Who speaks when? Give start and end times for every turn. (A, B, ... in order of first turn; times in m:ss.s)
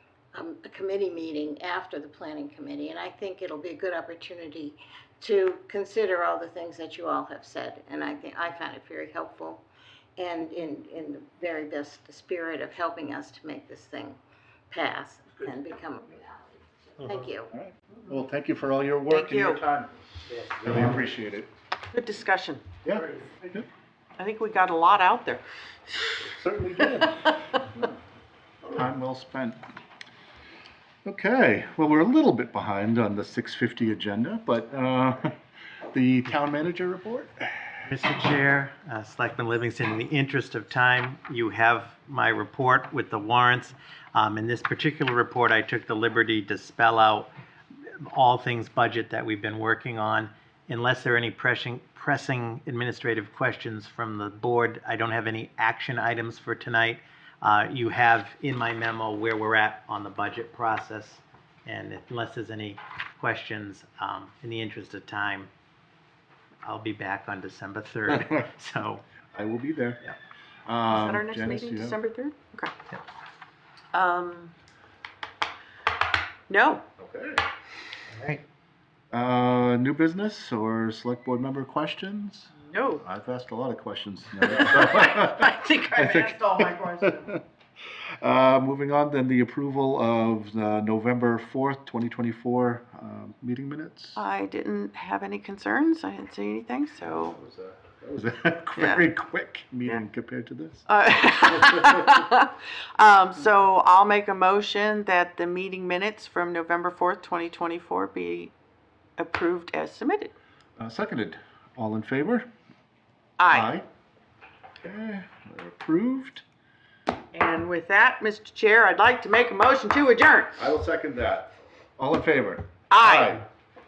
0:00.3-0:09.6 A
0:10.2-0:14.2 A
0:14.7-0:17.5 A
0:17.5-0:19.9 B
0:19.1-0:19.6 C
0:20.5-0:21.5 B
0:21.9-0:22.6 C
0:22.8-0:23.6 B
0:24.2-0:25.4 C
0:26.3-0:27.3 B
0:28.7-0:29.6 B
0:31.0-0:35.4 B
0:35.9-0:37.7 B
0:37.8-0:47.3 D
0:48.1-1:05.5 D
1:06.6-1:09.0 D
1:09.3-1:10.0 B
1:10.7-1:12.0 B
1:10.9-1:12.8 C
1:13.9-1:14.5 C
1:16.5-1:16.8 C
1:17.0-1:17.4 B
1:19.1-1:27.4 B
1:22.6-1:23.0 C
1:24.6-1:27.4 C
1:28.2-1:34.2 B
1:34.2-1:37.4 C
1:37.1-1:40.8 B
1:38.8-1:39.0 C
1:40.9-1:48.5 C
1:49.2-1:50.3 C
1:50.8-1:52.5 B
1:53.4-1:53.7 C
1:53.5-1:53.9 B
1:54.8-1:56.4 B
1:57.3-2:00.6 C
2:00.6-2:03.4 B
2:02.9-2:03.4 C